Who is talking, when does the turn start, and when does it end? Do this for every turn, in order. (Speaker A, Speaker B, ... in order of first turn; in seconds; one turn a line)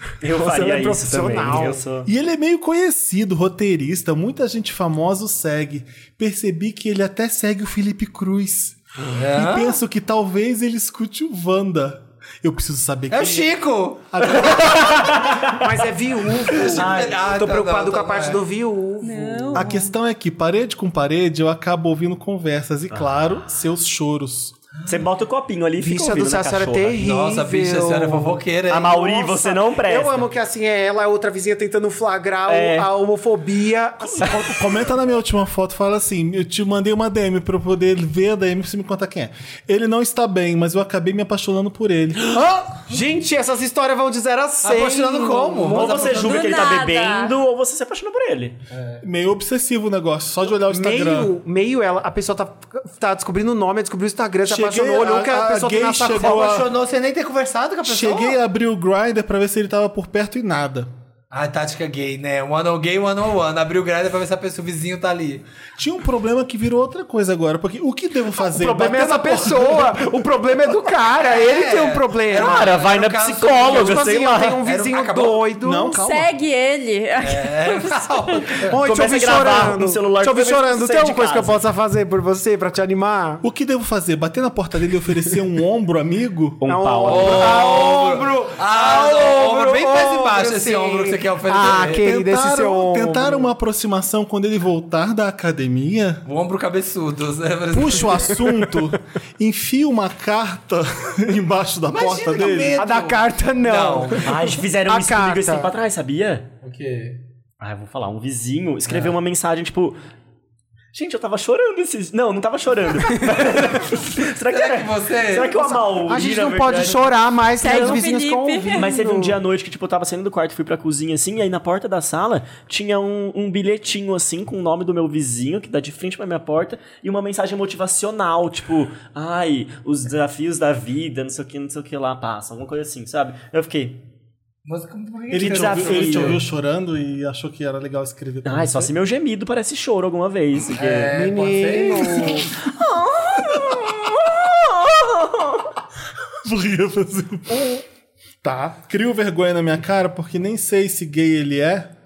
Speaker A: 0.2-2.1
Speaker B: 0.3-1.8
Speaker C: 2.0-13.5
Speaker D: 9.2-9.8
Speaker D: 13.1-14.8
Speaker C: 14.1-15.6
Speaker B: 15.5-19.7
Speaker D: 16.5-18.4
Speaker A: 16.8-17.2
Speaker E: 19.0-19.9
Speaker C: 19.5-24.6
Speaker D: 24.8-25.0
Speaker A: 24.9-27.0
Speaker B: 25.8-34.8
Speaker D: 27.0-29.1
Speaker A: 28.7-30.3
Speaker A: 32.5-32.9
Speaker C: 34.0-42.8
Speaker B: 42.8-46.1
Speaker D: 44.6-46.6
Speaker A: 45.6-48.6
Speaker E: 46.1-47.4
Speaker D: 48.7-49.0
Speaker C: 49.0-51.3
Speaker B: 50.7-56.6
Speaker C: 54.5-56.7
Speaker D: 56.2-58.4
Speaker C: 57.9-60.9
Speaker D: 61.3-65.5
Speaker C: 65.8-69.8
Speaker B: 68.4-72.7
Speaker D: 69.0-69.8
Speaker D: 71.2-75.5
Speaker A: 72.3-74.7
Speaker B: 73.6-76.0
Speaker C: 75.6-76.3
Speaker E: 75.9-78.6
Speaker D: 77.2-78.8
Speaker B: 78.7-83.5
Speaker A: 78.8-81.6
Speaker C: 83.4-86.6
Speaker A: 86.6-87.6
Speaker B: 86.7-93.5
Speaker D: 87.1-92.1
Speaker C: 91.9-96.2
Speaker D: 96.2-98.3
Speaker C: 97.7-102.8
Speaker D: 101.9-104.3
Speaker B: 102.8-105.7
Speaker A: 104.2-106.5
Speaker D: 106.6-107.2
Speaker A: 107.6-110.0
Speaker D: 108.9-109.2
Speaker A: 110.9-118.0
Speaker D: 113.5-115.5
Speaker B: 115.5-119.4
Speaker E: 117.6-118.9
Speaker A: 118.7-134.0
Speaker D: 134.7-136.4
Speaker C: 135.3-138.9
Speaker A: 135.4-136.4
Speaker A: 138.4-141.2
Speaker D: 140.8-142.5
Speaker B: 141.1-142.5
Speaker A: 142.6-145.7
Speaker C: 146.4-147.8
Speaker B: 148.4-148.8
Speaker C: 148.8-151.9